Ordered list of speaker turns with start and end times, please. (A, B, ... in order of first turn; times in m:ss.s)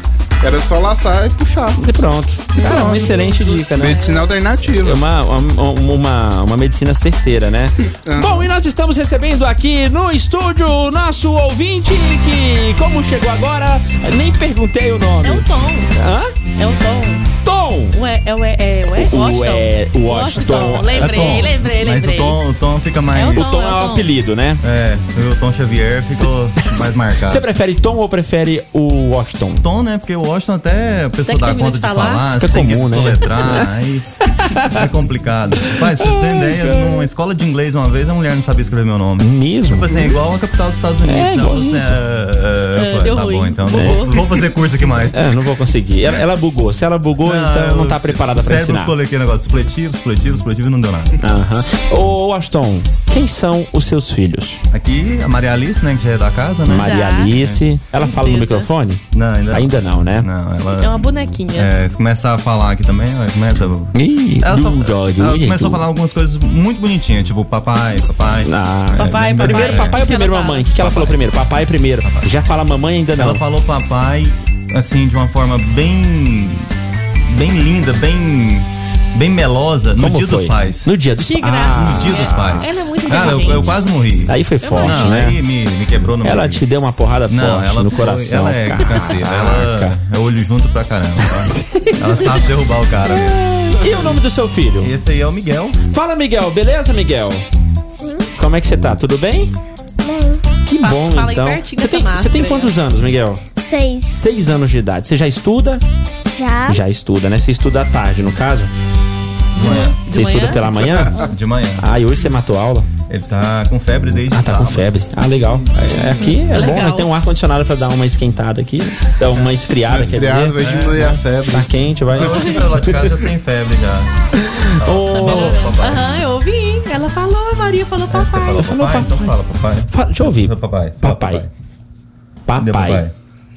0:00.4-0:01.8 A
0:01.8-0:04.0 B
0:02.5-0:05.0 A
0:02.6-0:04.3 C
0:04.7-0:16.3 B
0:08.0-0:08.5 A
0:15.2-0:15.9 C
0:16.6-0:17.3 C
0:17.4-0:18.0 B
0:17.9-0:22.4 C
0:18.9-0:21.5 B
0:20.9-0:23.6 D
0:23.1-0:24.1 C
0:23.3-0:24.6 B
0:24.6-0:27.4 D
0:26.1-0:29.6 B
0:29.6-0:34.1 D
0:31.2-0:32.3 C
0:32.3-0:33.7 B
0:34.4-0:34.9 B
0:34.7-0:45.5 D
0:35.6-0:37.1 B
0:39.2-0:40.2 B
0:41.0-0:41.9 B
0:42.7-0:44.2 C
0:43.7-0:44.3 B
0:45.1-0:48.9 B
0:46.0-0:46.3 D
0:47.2-0:51.2 D
0:51.2-0:54.6 B
0:54.7-0:57.6 D
0:56.6-1:00.3 B
0:56.7-0:57.3 C
0:58.0-0:58.7 C
0:59.1-1:10.0 D
1:00.8-1:01.7 C
1:03.9-1:05.8 B
1:08.4-1:13.4 B
1:09.0-1:10.7 C
1:10.8-1:11.2 D
1:12.0-1:12.3 D
1:13.2-1:16.7 D
1:17.3-1:20.9 D
1:19.9-1:23.7 B
1:21.2-1:23.7 C
1:21.7-1:26.6 D
1:24.3-1:25.4 B
1:24.6-1:25.3 C
1:26.2-1:30.0 B
1:27.3-1:34.2 D
1:31.2-1:32.4 B
1:33.0-1:34.9 B
1:34.8-1:35.8 D
1:35.8-1:37.4 B
1:37.9-1:38.3 E
1:38.4-1:39.5 B
1:40.0-1:40.4 E
1:40.7-1:43.4 B
1:40.8-1:42.7 C
1:43.6-1:44.2 E
1:44.1-1:45.8 B
1:46.3-1:46.8 E
1:46.7-1:48.7 B
1:49.6-1:50.0 D
1:49.6-1:50.6 C
1:49.6-1:51.2 B
1:51.2-1:51.9 D
1:51.8-1:52.9 B
1:53.1-1:54.9 D
1:54.3-2:03.1 B
1:56.2-1:57.1 C
1:59.9-2:01.9 A
2:00.6-2:01.2 D
2:02.1-2:04.1 D
2:02.2-2:02.6 C
2:04.3-2:05.7 B
2:04.7-2:06.3 D
2:05.1-2:08.7 C
2:08.1-2:11.5 D
2:08.6-2:09.4 B
2:09.9-2:11.4 B
2:12.5-2:13.0 B
2:12.6-2:13.1 D